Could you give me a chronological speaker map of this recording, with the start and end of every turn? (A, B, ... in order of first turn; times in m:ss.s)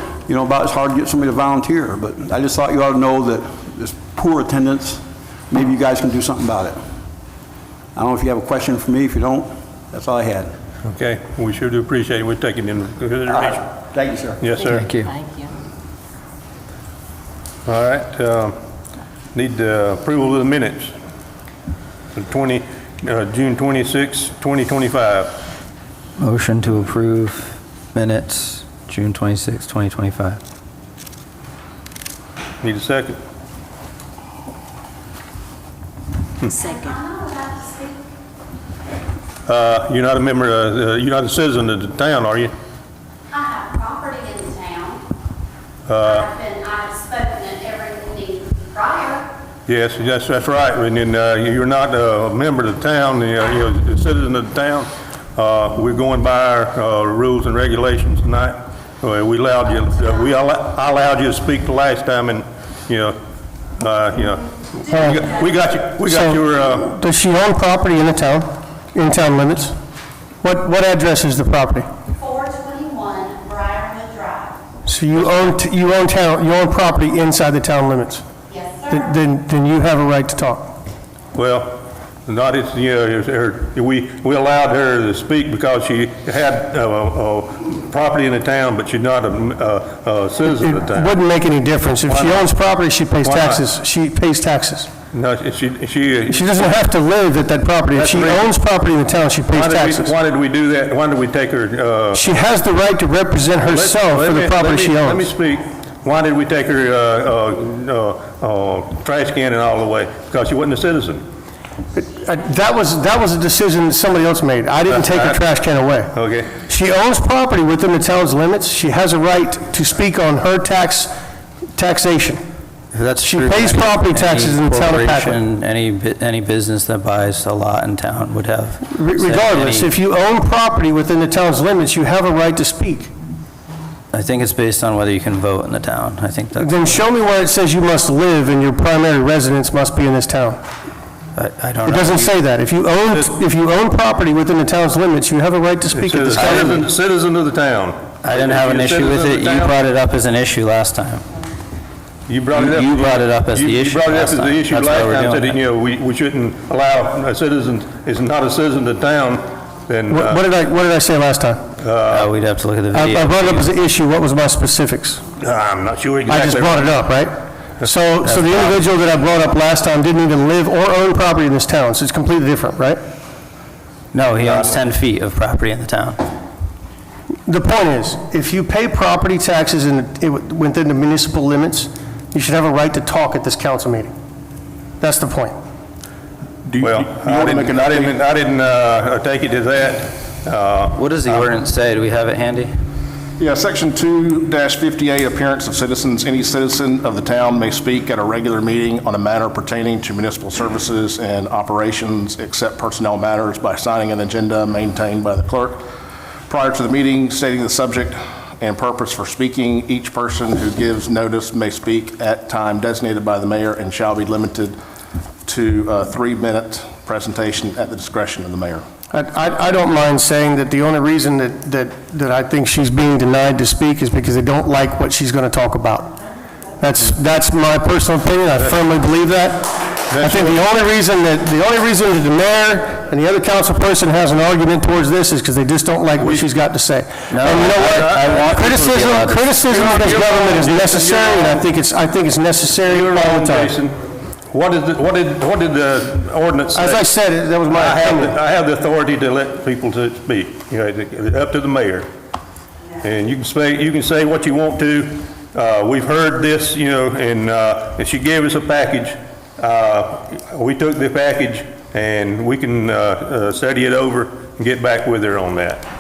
0:00.3-0:06.8 A
0:08.0-0:10.5 A
0:10.8-0:13.6 B
0:13.3-0:14.5 A
0:14.4-0:14.9 B
0:14.8-0:15.1 C
0:17.7-0:18.6 B
0:19.3-0:20.9 B
0:22.2-0:25.4 B
0:26.2-0:30.4 C
0:32.6-0:33.2 B
0:36.4-0:38.0 D
0:39.5-0:42.5 B
0:43.3-0:45.0 D
0:45.9-0:46.3 B
0:46.0-0:49.3 D
0:49.7-1:03.2 B
1:03.8-1:06.9 B
1:04.9-1:05.3 E
1:06.0-1:09.8 E
1:10.4-1:11.9 E
1:12.1-1:14.6 D
1:14.9-1:18.2 E
1:15.3-1:15.5 B
1:18.5-1:19.2 D
1:18.9-1:20.8 E
1:21.3-1:31.2 B
1:30.5-1:34.9 E
1:32.1-1:32.5 B
1:33.2-1:33.6 B
1:35.1-1:36.8 B
1:36.3-1:40.1 E
1:37.9-1:38.5 B
1:39.5-1:42.2 B
1:42.1-1:45.3 E
1:43.6-1:51.2 B
1:51.9-2:01.1 E
1:54.9-1:55.4 B
1:56.1-1:56.6 B
2:01.8-2:02.4 E
2:02.9-2:09.9 C
2:03.3-2:05.4 E
2:08.9-2:13.1 E
2:14.1-2:16.7 C
2:16.6-2:20.6 E
2:21.4-2:22.3 C
2:21.8-2:26.9 E
2:25.9-2:29.8 B
2:28.2-2:31.2 C
2:32.3-2:40.5 B
2:32.5-2:35.6 C
2:40.1-2:41.6 E
2:41.8-2:42.4 B
2:42.1-2:43.7 C
2:42.9-2:45.3 E
2:45.3-2:47.0 B
2:46.3-2:53.0 E
2:48.2-2:48.8 C
2:54.1-2:56.2 C
2:57.5-3:04.1 E
3:05.0-3:05.6 E
3:06.7-3:08.2 F
3:06.8-3:11.5 B
3:11.0-3:12.7 C
3:13.4-3:25.8 F
3:26.5-3:34.8 F
3:35.4-3:38.8 F
3:39.1-3:46.1 E
3:46.8-4:03.8 E
3:50.1-3:50.6 B
3:56.2-3:56.5 B
3:57.3-3:59.7 C
3:57.6-3:58.5 B
3:59.7-4:01.7 B
4:02.8-4:07.1 B
4:06.7-4:08.4 E
4:07.7-4:12.1 B
4:13.0-4:25.8 B